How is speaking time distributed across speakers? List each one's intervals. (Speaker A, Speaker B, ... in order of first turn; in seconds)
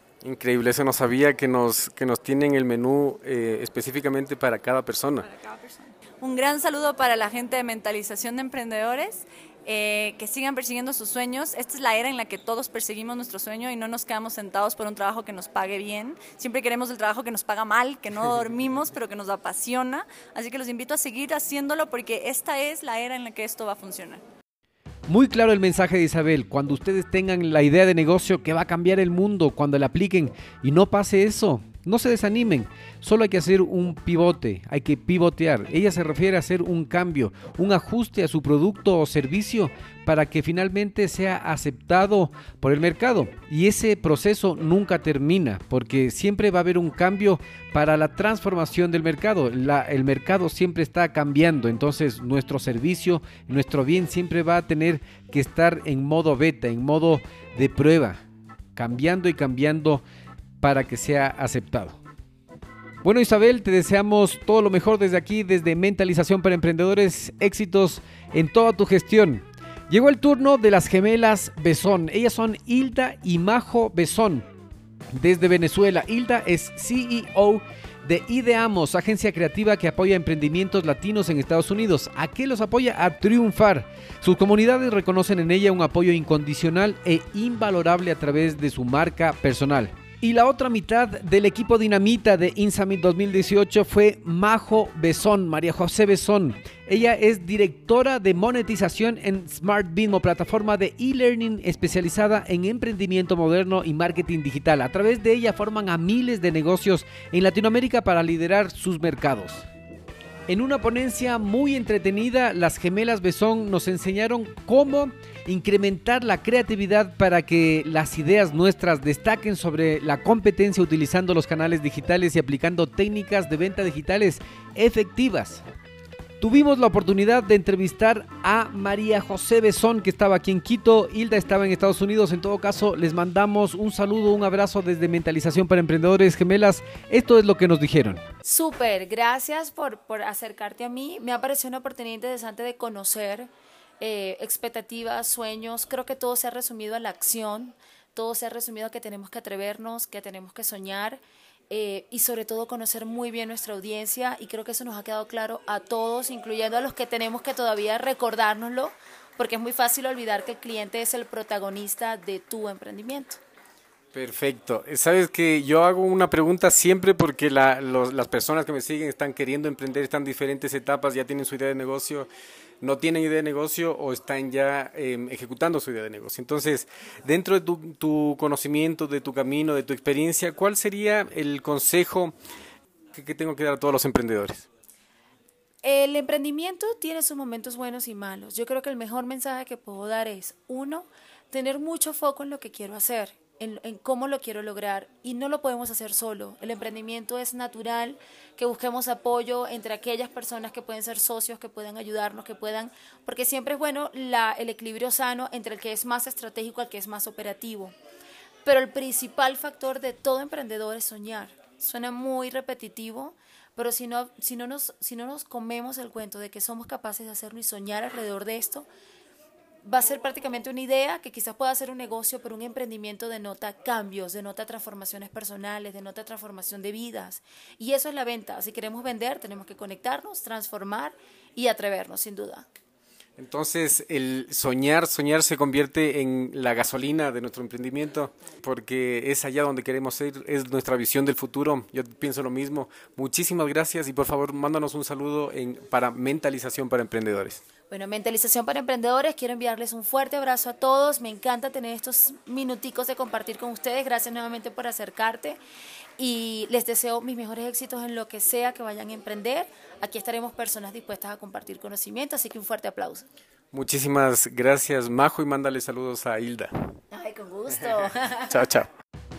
Speaker A: 0.2-5.3, 164.1-172.3, 172.8-182.3, 183.1-184.7, 233.4-247.6, 263.7-266.9, 268.5-268.9
Speaker B: 5.2-24.2
Speaker C: 25.1-58.2, 58.8-60.0, 60.6-62.0, 63.0-74.5, 75.1-109.7, 110.5-125.6, 126.4-138.2
Speaker D: 138.4-163.4, 185.8-207.9, 208.6-218.9, 219.8-232.7, 247.9-255.6, 256.2-263.3, 267.1-268.6